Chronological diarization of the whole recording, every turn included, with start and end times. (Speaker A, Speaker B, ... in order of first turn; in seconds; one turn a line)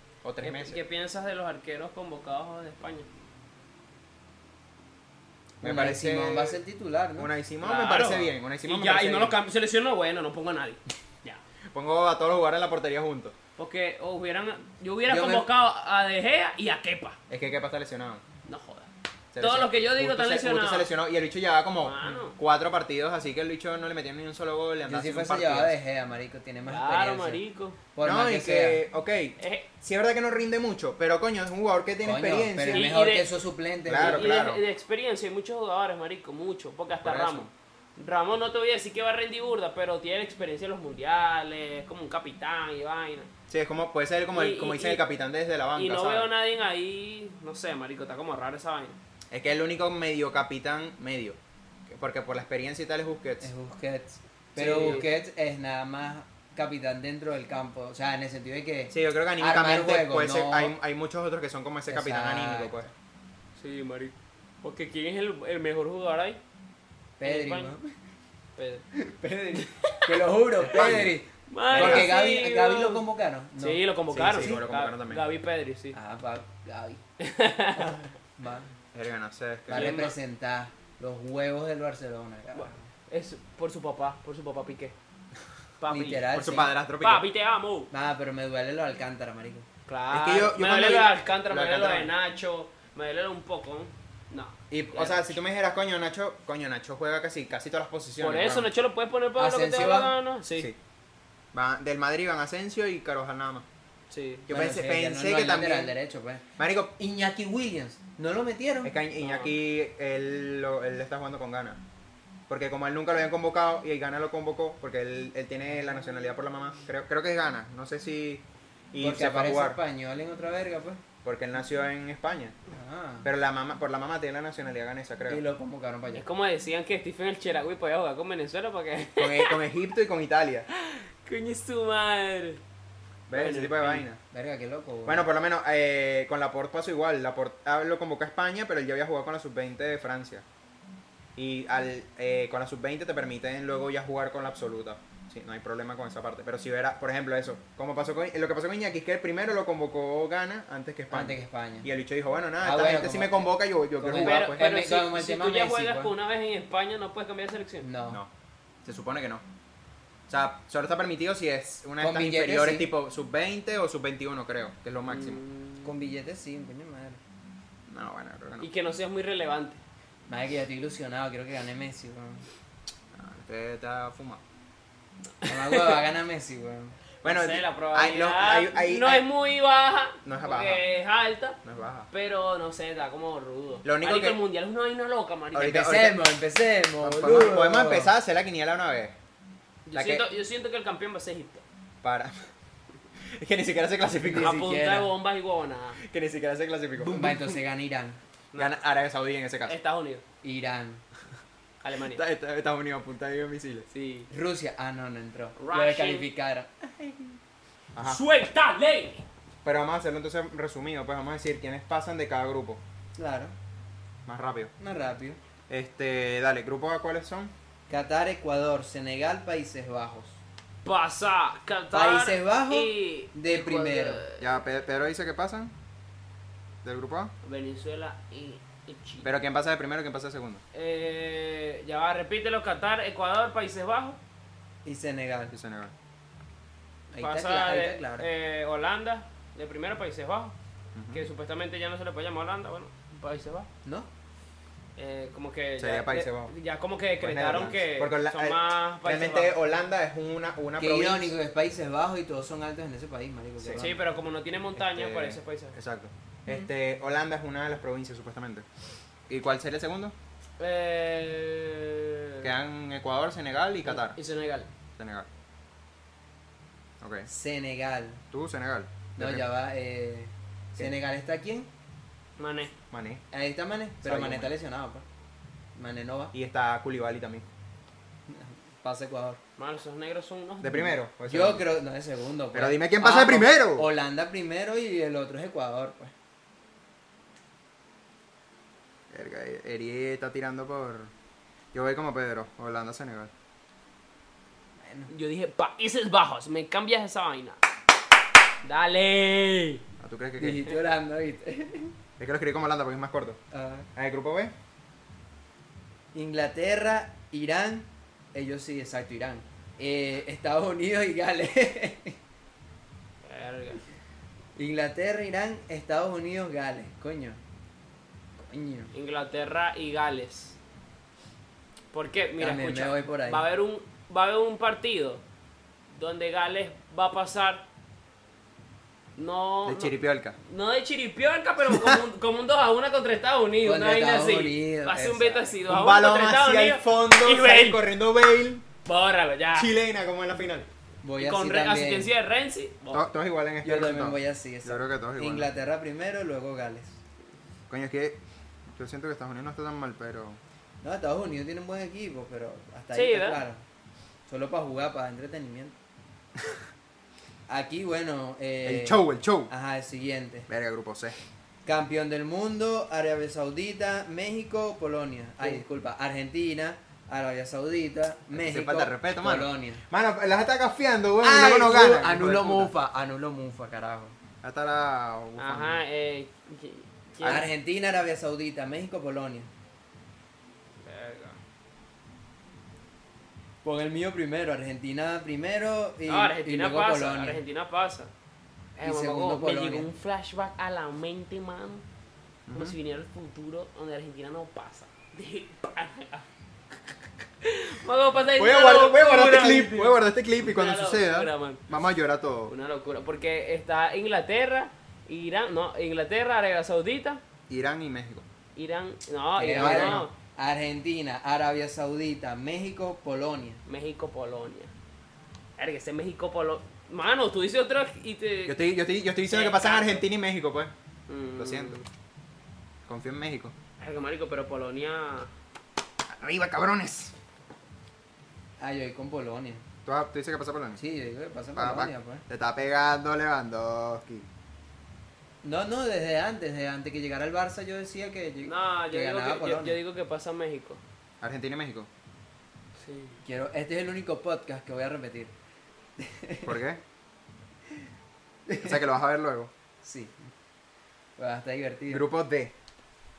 Speaker A: 0.2-0.8
Speaker B: 0.4-3.1
Speaker A: 5.6-6.6
Speaker C: 5.6-7.3
Speaker A: 7.2-9.4
Speaker B: 7.6-11.4
Speaker A: 11.7-13.3
Speaker B: 13.6-17.2
Speaker C: 15.1-15.5
Speaker A: 17.3-18.2
Speaker B: 18.4-20.9
Speaker A: 19.3-25.8
Speaker B: 21.8-22.4
Speaker C: 24.9-27.4
Speaker B: 26.6-27.8
Speaker C: 27.9-28.8
Speaker A: 28.0-32.9
Speaker B: 29.4-29.7
Speaker C: 32.0-34.3
Speaker B: 32.7-33.3
Speaker A: 33.9-34.6
Speaker B: 34.0-43.3
Speaker A: 37.0-37.5
Speaker A: 43.5-46.3
Speaker B: 44.3-45.0
Speaker B: 45.8-49.0
Speaker A: 49.3-53.5
Speaker C: 53.4-60.8
Speaker B: 54.6-55.1
Speaker A: 54.6-55.0
Speaker A: 58.9-62.9
Speaker C: 61.9-62.8
Speaker B: 63.6-66.4
Speaker C: 67.2-67.9
Speaker B: 67.2-67.8
Speaker B: 68.6-68.8
Speaker C: 68.9-74.6
Speaker B: 69.6-70.1
Speaker B: 70.7-71.0
Speaker A: 70.7-71.1
Speaker B: 71.5-73.0
Speaker A: 71.7-72.1
Speaker B: 73.6-76.0
Speaker A: 74.1-75.2
Speaker C: 75.9-77.0
Speaker B: 77.2-78.0
Speaker C: 77.8-78.7
Speaker A: 78.9-80.1
Speaker C: 79.7-82.8
Speaker B: 79.7-80.1
Speaker B: 82.5-85.0
Speaker B: 85.8-86.3
Speaker C: 85.9-86.7
Speaker A: 86.3-87.2
Speaker B: 87.0-87.9
Speaker C: 87.9-89.7
Speaker B: 89.9-95.3
Speaker A: 90.1-92.1
Speaker A: 94.7-98.7
Speaker B: 98.2-100.7
Speaker C: 99.4-100.2
Speaker A: 101.5-103.7
Speaker B: 104.1-104.5
Speaker A: 104.5-105.9
Speaker C: 104.5-106.4
Speaker A: 106.6-107.0
Speaker C: 107.0-109.0
Speaker A: 108.8-111.8
Speaker B: 109.2-109.5
Speaker A: 112.5-119.8
Speaker C: 119.0-121.0
Speaker A: 121.2-122.6
Speaker C: 122.7-123.3
Speaker A: 123.2-125.4
Speaker C: 125.3-126.2
Speaker B: 126.1-129.6
Speaker A: 129.2-130.7
Speaker B: 130.7-132.6
Speaker A: 133.3-134.2
Speaker B: 133.3-134.1
Speaker C: 134.3-135.3
Speaker A: 135.1-140.4
Speaker A: 141.4-154.7
Speaker C: 151.1-151.9
Speaker C: 152.6-156.1
Speaker B: 154.2-157.9
Speaker C: 157.8-158.2
Speaker A: 158.8-159.4
Speaker A: 160.3-165.4
Speaker C: 162.0-162.9
Speaker B: 165.1-165.9
Speaker C: 165.8-167.2
Speaker A: 167.9-168.7
Speaker B: 168.6-169.8
Speaker C: 170.3-172.4
Speaker A: 173.1-174.4
Speaker B: 175.4-176.0
Speaker C: 175.5-177.0
Speaker A: 177.2-179.2
Speaker B: 177.2-181.6
Speaker A: 180.2-180.8
Speaker A: 181.6-182.1
Speaker B: 182.1-185.9
Speaker A: 183.8-184.4
Speaker A: 185.5-186.2
Speaker C: 185.6-188.1
Speaker A: 187.0-189.2
Speaker B: 189.9-191.6
Speaker A: 189.9-190.2
Speaker A: 192.0-192.3
Speaker A: 193.3-194.6
Speaker C: 194.2-195.1
Speaker B: 194.3-196.0
Speaker A: 196.0-197.4
Speaker C: 197.0-198.2
Speaker A: 198.6-199.8
Speaker B: 199.7-200.2
Speaker C: 200.4-201.0
Speaker B: 201.8-202.2
Speaker A: 202.1-203.9
Speaker B: 203.9-204.3
Speaker C: 204.3-207.3
Speaker B: 205.6-206.3
Speaker A: 207.9-208.2
Speaker B: 208.0-209.2
Speaker A: 209.6-212.8
Speaker C: 213.2-213.6
Speaker A: 214.2-214.7
Speaker C: 214.8-215.4
Speaker A: 215.7-217.5
Speaker C: 217.9-220.4
Speaker B: 220.8-224.6
Speaker C: 221.9-224.2
Speaker A: 224.4-225.7
Speaker A: 226.8-227.3
Speaker B: 227.4-229.3
Speaker A: 229.2-230.6
Speaker B: 230.7-234.2
Speaker C: 234.8-235.5
Speaker A: 235.5-235.9
Speaker C: 237.1-238.3
Speaker B: 237.1-240.6
Speaker A: 240.9-241.2
Speaker B: 241.1-243.7
Speaker B: 245.0-249.6
Speaker A: 245.8-246.5
Speaker A: 247.2-251.3
Speaker C: 250.8-254.0
Speaker A: 253.6-253.9
Speaker B: 253.8-255.8
Speaker A: 254.8-258.7
Speaker A: 259.3-260.1
Speaker B: 260.6-262.5
Speaker A: 262.4-264.2
Speaker B: 263.9-264.7
Speaker A: 265.0-265.3
Speaker A: 267.0-267.3
Speaker C: 267.3-268.2
Speaker A: 268.3-269.4
Speaker C: 269.2-271.7
Speaker B: 272.4-272.7
Speaker A: 272.9-273.2
Speaker C: 273.3-275.1
Speaker A: 274.0-274.5
Speaker C: 275.8-276.3
Speaker A: 276.3-277.5
Speaker C: 278.3-279.4
Speaker B: 279.6-280.9
Speaker A: 280.6-281.6
Speaker C: 281.3-286.1
Speaker A: 282.5-283.9
Speaker A: 289.1-291.1
Speaker A: 291.7-293.3
Speaker C: 294.8-295.1
Speaker B: 295.1-297.6
Speaker B: 298.6-299.8
Speaker A: 300.0-300.7
Speaker C: 300.4-301.9
Speaker A: 302.2-303.4
Speaker C: 303.5-303.9
Speaker A: 304.0-304.5
Speaker C: 306.1-312.2
Speaker B: 313.2-313.8
Speaker C: 314.6-317.4
Speaker C: 318.4-318.9
Speaker B: 318.9-320.6
Speaker B: 321.9-325.2
Speaker C: 322.4-323.4
Speaker B: 325.9-327.6
Speaker B: 329.2-337.8
Speaker A: 329.7-330.4
Speaker A: 331.7-332.0
Speaker C: 333.6-335.6
Speaker A: 335.7-338.7
Speaker B: 338.9-339.7
Speaker A: 339.6-340.7
Speaker C: 341.0-342.1
Speaker B: 341.2-343.1
Speaker A: 342.9-345.5
Speaker C: 343.6-347.0
Speaker A: 347.7-348.2
Speaker A: 348.8-350.4
Speaker C: 350.8-353.6
Speaker B: 352.9-353.4
Speaker C: 354.3-355.8
Speaker C: 357.5-360.5
Speaker A: 358.6-359.5
Speaker A: 360.5-361.2
Speaker C: 361.6-369.8
Speaker A: 368.3-372.7
Speaker C: 371.2-374.2
Speaker A: 374.4-375.8
Speaker B: 375.4-377.5
Speaker C: 377.2-379.5
Speaker B: 380.8-381.4
Speaker C: 383.6-387.4
Speaker B: 386.1-388.1
Speaker B: 388.8-391.9
Speaker C: 388.8-389.9
Speaker A: 392.5-392.8
Speaker B: 392.5-396.3
Speaker B: 397.4-401.6
Speaker A: 398.4-402.5
Speaker B: 402.5-407.2
Speaker A: 407.5-408.2
Speaker B: 408.6-410.1
Speaker C: 409.4-413.6
Speaker A: 409.5-410.1
Speaker B: 413.7-414.7
Speaker B: 415.6-418.6
Speaker A: 418.5-420.7
Speaker B: 419.2-420.1
Speaker B: 421.1-421.9
Speaker A: 421.4-421.8
Speaker A: 422.9-423.5
Speaker B: 423.8-425.3
Speaker A: 426.1-427.1
Speaker C: 428.6-429.6
Speaker A: 429.9-430.8
Speaker C: 430.8-432.2
Speaker A: 431.6-434.3
Speaker C: 435.4-439.8
Speaker B: 438.4-440.8
Speaker A: 441.2-441.9
Speaker B: 442.8-443.2
Speaker C: 443.2-445.3
Speaker C: 446.0-446.6
Speaker A: 446.4-446.8
Speaker C: 448.5-448.8
Speaker A: 448.6-449.5
Speaker C: 449.8-450.3
Speaker C: 451.2-452.1
Speaker A: 451.9-452.5